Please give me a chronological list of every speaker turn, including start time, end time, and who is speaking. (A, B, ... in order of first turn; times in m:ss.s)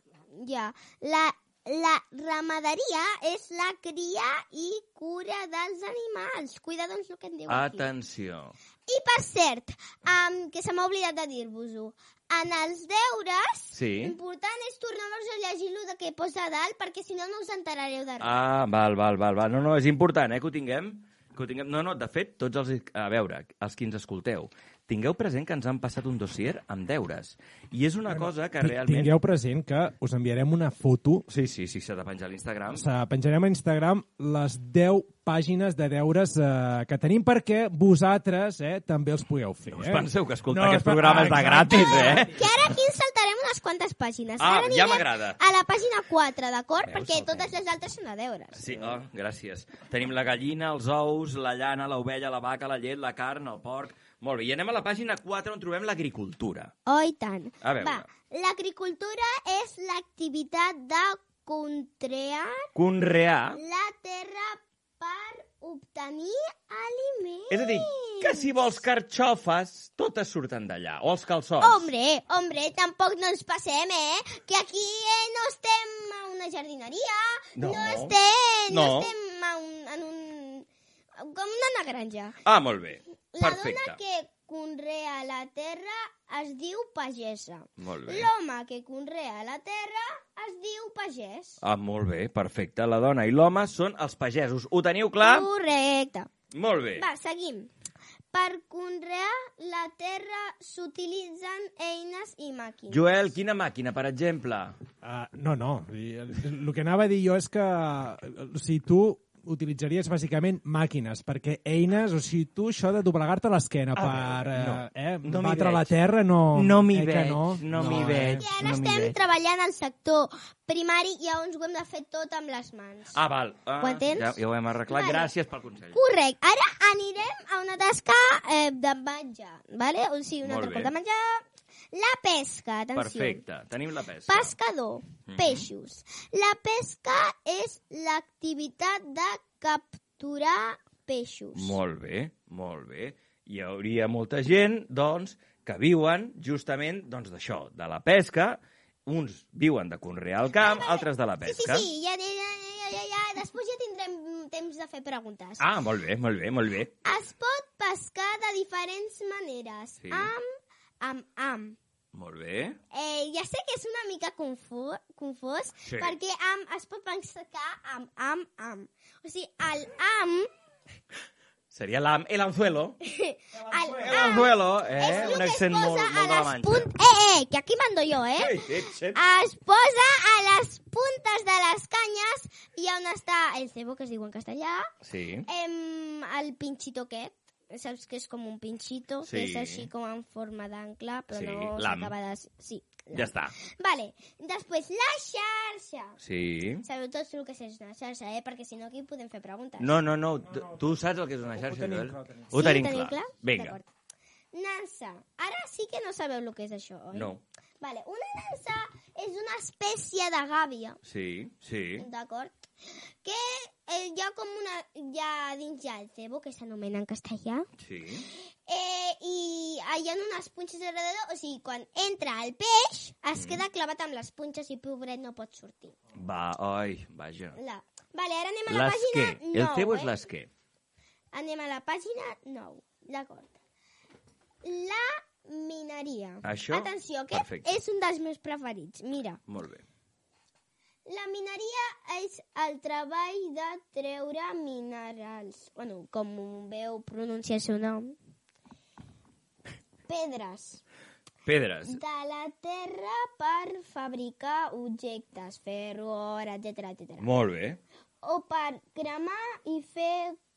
0:00.4-0:07.9 A
0:07.5-0:08.6 B
0:08.9-0:18.4 A
0:13.7-0:14.2 B
0:18.2-0:29.2 B
0:28.1-0:31.3 C
0:31.3-0:32.9 B
0:32.7-0:42.4 C
0:39.7-0:42.4 B
0:42.3-0:48.8 A
0:44.4-0:45.4 B
0:46.8-0:47.5 B
0:48.6-0:56.7 B
0:56.9-1:02.7 A
0:57.6-0:58.1 B
1:02.8-1:03.6 B
1:03.6-1:08.5 A
1:07.5-1:11.9 B
1:11.6-1:20.6 A
1:17.6-1:18.2 B
1:18.7-1:19.1 B
1:21.2-1:22.4 A
1:22.5-1:24.0 B
1:23.3-1:31.6 A
1:27.8-1:28.3 B
1:31.6-1:35.5 B
1:35.2-1:36.3 A
1:36.5-1:37.0 B
1:37.0-1:37.7 A
1:38.3-1:43.0 A
1:42.9-1:44.8 B
1:45.0-1:58.5 C
1:54.0-1:55.9 B
1:56.5-1:59.2 B
1:58.4-2:03.2 A
2:03.1-2:06.0 B
2:03.8-2:04.4 A
2:04.9-2:05.3 A
2:05.9-2:11.4 A
2:10.4-2:10.9 B
2:11.9-2:13.4 A
2:13.0-2:14.6 B
2:14.3-2:21.8 A
2:15.3-2:15.7 B
2:21.6-2:31.9 B
2:30.6-2:35.6 A
2:35.6-2:36.9 B
2:37.0-2:40.5 A
2:40.0-2:40.3 B
2:41.0-2:41.8 A
2:42.1-2:42.8 B
2:42.9-2:50.5 A
2:45.8-2:46.2 B
2:51.7-2:53.0 B
2:53.0-2:58.6 A
2:53.7-2:54.0 C
2:53.9-2:56.9 B
2:58.4-2:59.2 B
2:59.2-3:04.9 A
3:05.0-3:05.5 B
3:05.5-3:16.2 A
3:09.2-3:09.9 B
3:11.3-3:12.1 B
3:13.1-3:13.5 B
3:16.2-3:16.8 B
3:16.8-3:20.0 A
3:19.8-3:23.8 B
3:20.5-3:20.8 C
3:21.5-3:22.6 C
3:22.6-3:23.8 A
3:24.5-3:31.0 A
3:27.1-3:27.4 B
3:31.0-3:32.1 B
3:32.0-3:32.6 A
3:33.2-3:37.7 A
3:37.8-3:38.2 B
3:38.7-3:46.0 A
3:43.4-3:43.6 B
3:46.2-3:47.6 B
3:47.6-3:50.2 A
3:48.7-3:50.5 B
3:51.3-3:53.5 A
3:54.6-3:59.4 A
3:56.4-3:57.7 B
3:59.5-3:59.8 B
4:01.1-4:08.2 A
4:10.1-4:10.8 A
4:11.5-4:12.0 B
4:11.8-4:17.3 A
4:17.2-4:17.8 B
4:18.2-4:20.4 A